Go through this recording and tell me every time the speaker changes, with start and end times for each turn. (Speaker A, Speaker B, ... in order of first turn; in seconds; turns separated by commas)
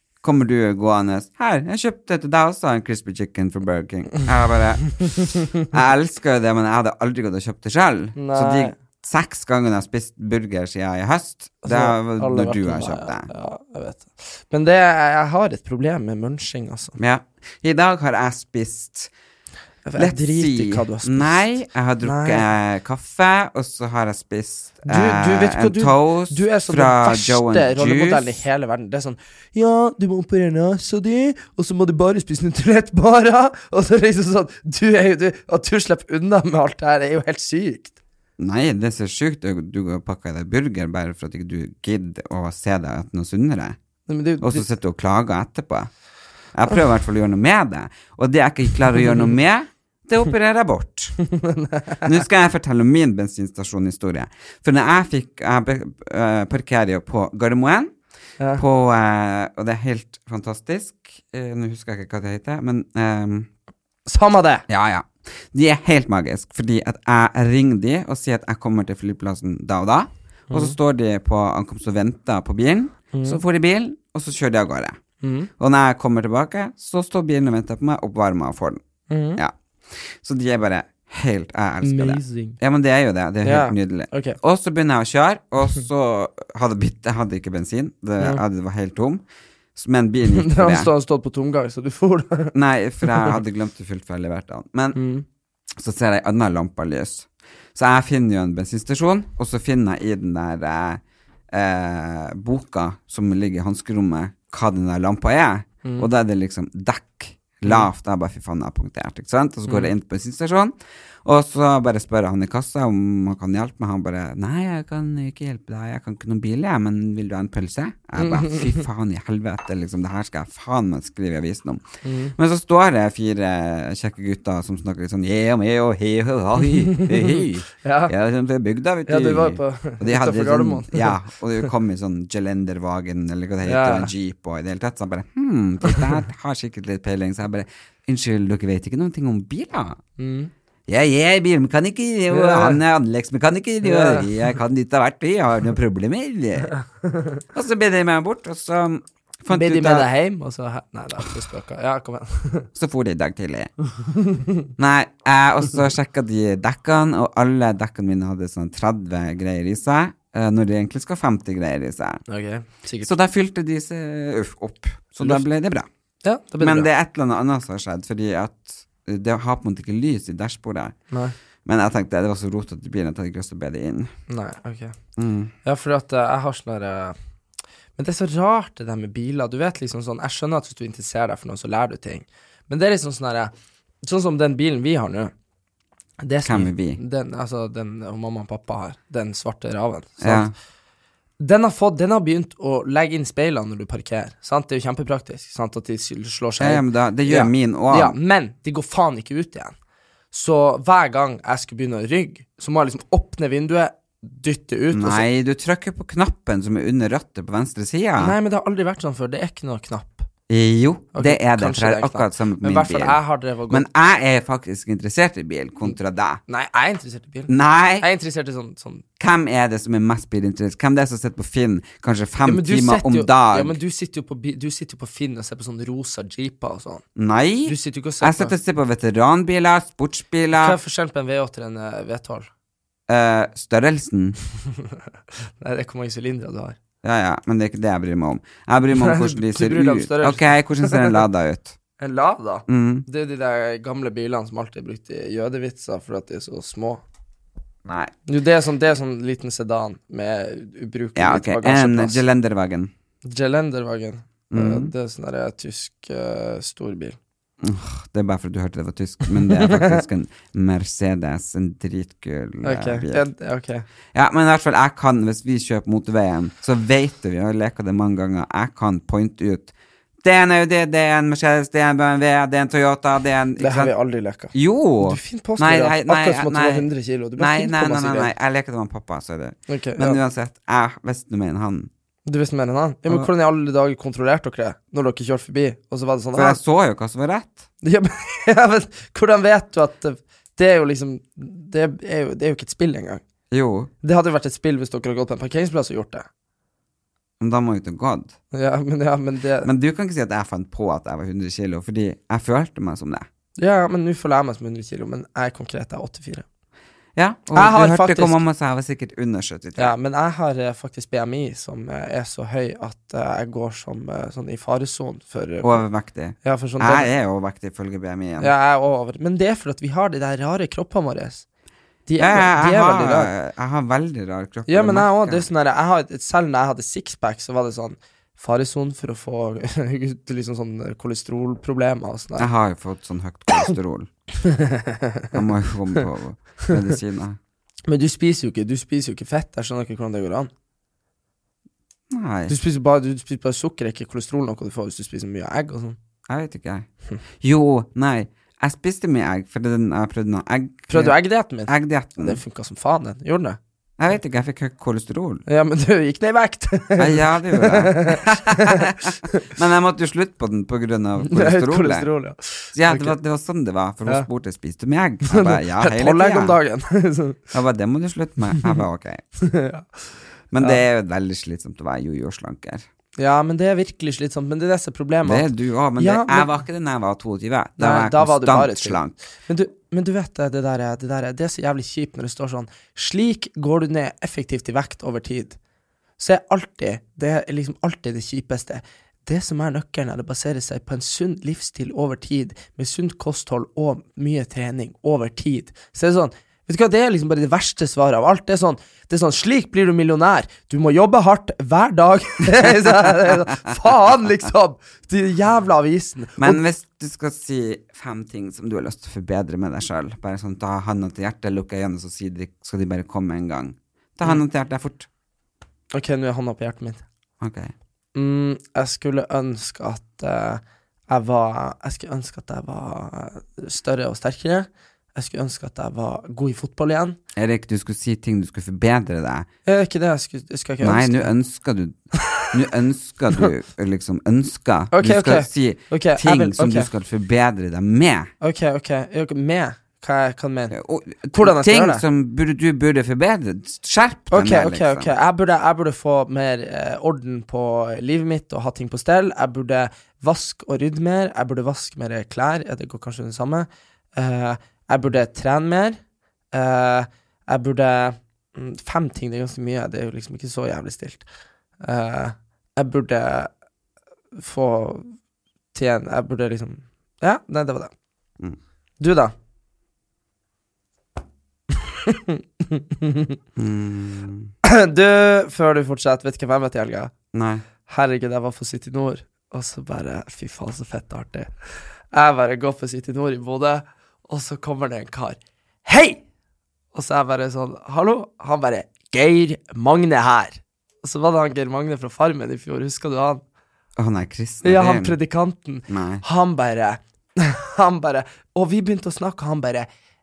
Speaker A: 0.2-13.3, Speaker B: 8.2-8.7, Speaker B: 11.6-17.0, Speaker A: 17.0-19.1, Speaker B: 19.8-21.4, Speaker A: 20.0-28.4, Speaker B: 22.0-22.4, Speaker B: 24.8-38.0, Speaker A: 38.4-43.8, Speaker B: 44.1-44.6, Speaker A: 44.4-45.9, Speaker A: 46.5-51.2, Speaker B: 51.3-52.1, Speaker A: 52.0-57.9, Speaker A: 58.5-63.5, Speaker B: 64.1-64.6, Speaker A: 64.7-75.0, Speaker B: 70.5-70.8, Speaker B: 73.1-73.4, Speaker B: 75.2-75.5, Speaker A: 75.6-78.8, Speaker B: 79.1-79.4, Speaker A: 79.3-89.2, Speaker B: 81.8-82.6, Speaker B: 83.4-84.4, Speaker A: 89.8-90.9, Speaker B: 90.3-92.5, Speaker A: 92.5-95.0, Speaker B: 93.0-93.3, Speaker B: 94.9-95.2, Speaker A: 95.8-121.8, Speaker B: 109.7-109.9, Speaker B: 118.2-118.8, Speaker B: 122.0-122.3, Speaker A: 122.3-140.0, Speaker B: 126.9-128.1, Speaker B: 129.1-131.1, Speaker B: 133.6-134.1, Speaker B: 140.2-140.5, Speaker A: 140.9-146.7, Speaker B: 142.3-142.8, Speaker B: 143.8-144.3, Speaker A: 147.5-150.1, Speaker B: 149.5-152.7, Speaker A: 152.7-153.7, Speaker A: 154.8-162.2, Speaker B: 162.3-163.1, Speaker A: 163.0-165.9, Speaker B: 165.2-165.4, Speaker B: 166.2-166.9, Speaker A: 166.6-170.9, Speaker A: 171.6-174.1, Speaker B: 174.3-174.9, Speaker A: 175.2-175.5, Speaker B: 175.6-177.2, Speaker B: 177.9-183.5, Speaker B: 184.0-185.3, Speaker B: 186.2-190.5, Speaker A: 186.4-187.0, Speaker A: 190.2-190.5, Speaker B: 191.4-199.7, Speaker A: 196.6-198.2, Speaker B: 200.3-205.2, Speaker A: 204.9-208.3, Speaker B: 208.2-210.3, Speaker A: 210.5-216.4, Speaker B: 211.1-213.8, Speaker B: 216.5-219.0, Speaker A: 217.5-218.1, Speaker A: 219.2-223.8, Speaker B: 222.4-227.0, Speaker A: 227.2-230.8, Speaker B: 227.7-228.5, Speaker B: 230.6-232.5, Speaker A: 233.1-234.4, Speaker B: 235.6-236.8, Speaker A: 237.0-241.8, Speaker B: 238.9-241.2, Speaker B: 242.0-247.0, Speaker A: 242.7-243.1, Speaker A: 247.8-248.1, Speaker B: 248.3-252.2, Speaker A: 251.2-252.9, Speaker B: 253.2-257.2, Speaker A: 254.5-254.9, Speaker A: 257.6-263.2, Speaker B: 259.4-260.0, Speaker B: 262.6-263.9, Speaker A: 264.1-269.7, Speaker A: 270.2-273.9, Speaker B: 273.6-278.3, Speaker A: 274.5-281.9, Speaker B: 279.7-280.2, Speaker B: 282.2-286.6, Speaker A: 286.3-287.6, Speaker B: 287.8-293.2, Speaker A: 293.5-293.9, Speaker B: 294.0-296.3, Speaker A: 297.4-298.4, Speaker B: 298.5-299.7, Speaker A: 299.6-303.3, Speaker B: 303.6-306.4, Speaker A: 307.1-309.9, Speaker B: 307.5-308.4, Speaker B: 309.8-315.8, Speaker A: 315.6-318.5, Speaker B: 316.4-317.1, Speaker B: 318.4-321.4, Speaker B: 322.1-323.3, Speaker A: 322.2-325.5, Speaker B: 324.7-332.5, Speaker A: 332.4-334.1, Speaker B: 334.4-335.3, Speaker A: 335.3-337.4, Speaker B: 337.9-340.5, Speaker A: 342.1-342.5, Speaker B: 342.5-346.0, Speaker A: 346.3-346.9, Speaker A: 347.4-352.4, Speaker B: 350.9-353.6, Speaker A: 354.0-355.4, Speaker B: 355.5-359.4, Speaker A: 357.0-362.1, Speaker B: 361.2-363.1, Speaker A: 362.7-366.6, Speaker B: 365.3-367.4, Speaker A: 367.5-369.2, Speaker B: 369.4-369.9, Speaker A: 370.5-372.9, Speaker B: 373.2-376.5, Speaker A: 375.2-379.1, Speaker B: 377.8-385.6, Speaker B: 386.2-406.6, Speaker A: 406.4-415.1, Speaker B: 415.9-417.0, Speaker A: 417.4-417.7, Speaker B: 418.1-427.2, Speaker A: 427.3-429.5, Speaker B: 429.6-431.3, Speaker A: 430.8-438.3, Speaker B: 434.9-436.9, Speaker B: 438.4-440.8, Speaker A: 440.7-445.1, Speaker B: 441.3-442.0, Speaker B: 444.3-456.0, Speaker B: 456.5-461.2, Speaker B: 461.8-463.5, Speaker B: 464.3-465.1, Speaker B: 465.7-467.9, Speaker B: 469.0-469.3, Speaker B: 472.1-473.3, Speaker A: 473.6-474.5, Speaker B: 474.6-477.1, Speaker A: 477.3-477.6, Speaker B: 477.9-481.5, Speaker B: 482.1-486.2, Speaker B: 486.9-493.4, Speaker A: 493.9-495.1, Speaker B: 494.6-499.9, Speaker A: 495.9-496.2